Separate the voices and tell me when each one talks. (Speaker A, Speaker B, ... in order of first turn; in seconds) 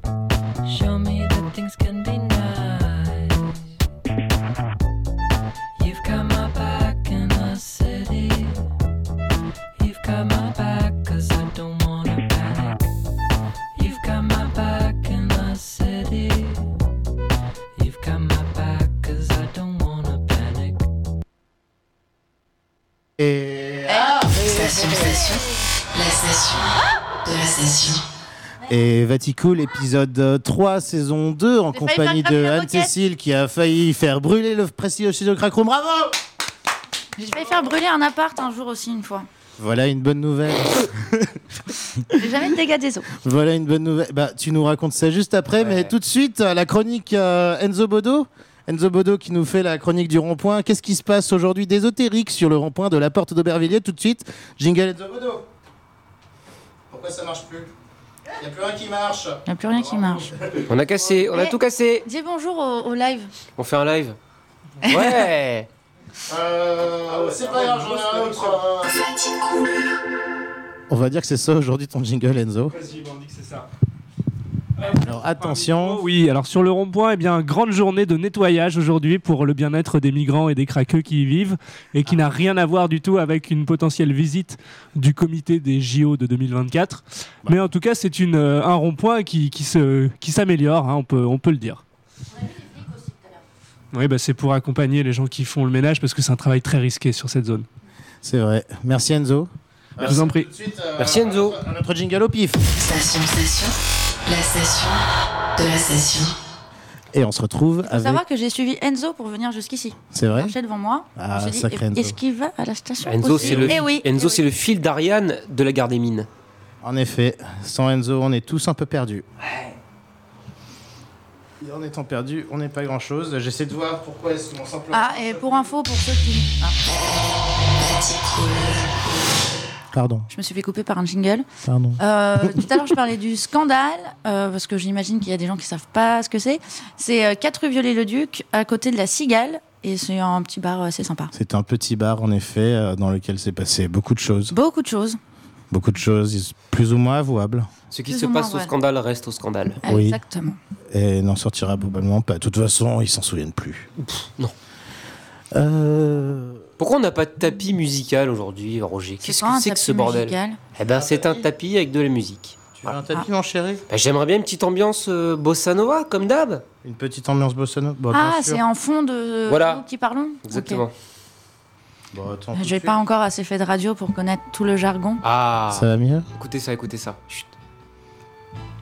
Speaker A: 0.6-3.7, 5.8-8.6, 9.8-12.9, 13.7-16.7, 17.7-20.9
Speaker B: 23.2-24.4, 28.7-36.2, 39.6-41.4, 43.2-55.4, 56.9-57.7, 58.4-60.8, 66.3-69.0, 70.9-72.8, 74.9-76.0, 98.2-102.6, 107.1-108.2, 110.1-110.5, 111.2-112.2, 113.3-113.8, 116.8-119.2, 121.6-125.6, 129.9-130.3, 131.6-132.5, 141.3-144.5, 145.7-147.7, 149.8-150.2, 150.9-153.9, 155.5-156.6, 160.8-161.4, 162.8-163.8, 166.8-168.6, 172.1-173.0, 175.7-176.2
Speaker C: 24.1-28.0, 68.9-69.8, 102.7-105.0, 105.5-106.4, 127.7-129.3
Speaker D: 31.7-32.9, 37.2-39.3, 42.1-43.1, 59.5-60.3, 61.3-63.3, 64.9-65.2, 107.9-114.4, 124.9-126.7, 130.3-131.4, 132.0-141.3, 144.5-145.2, 148.1-148.7, 149.8-150.6, 159.2-160.6, 168.1-170.8, 172.5-175.2
Speaker E: 45.6-45.9, 60.7-62.0, 63.5-64.2, 64.8-65.7, 101.0-101.6, 113.0-116.3, 147.9-149.8, 154.1-154.5, 156.8-162.7, 163.9-166.6, 169.5-169.8, 170.4-170.9, 175.2-177.5
Speaker F: 72.8-73.6, 74.8-91.8, 93.9-97.7, 100.0-100.5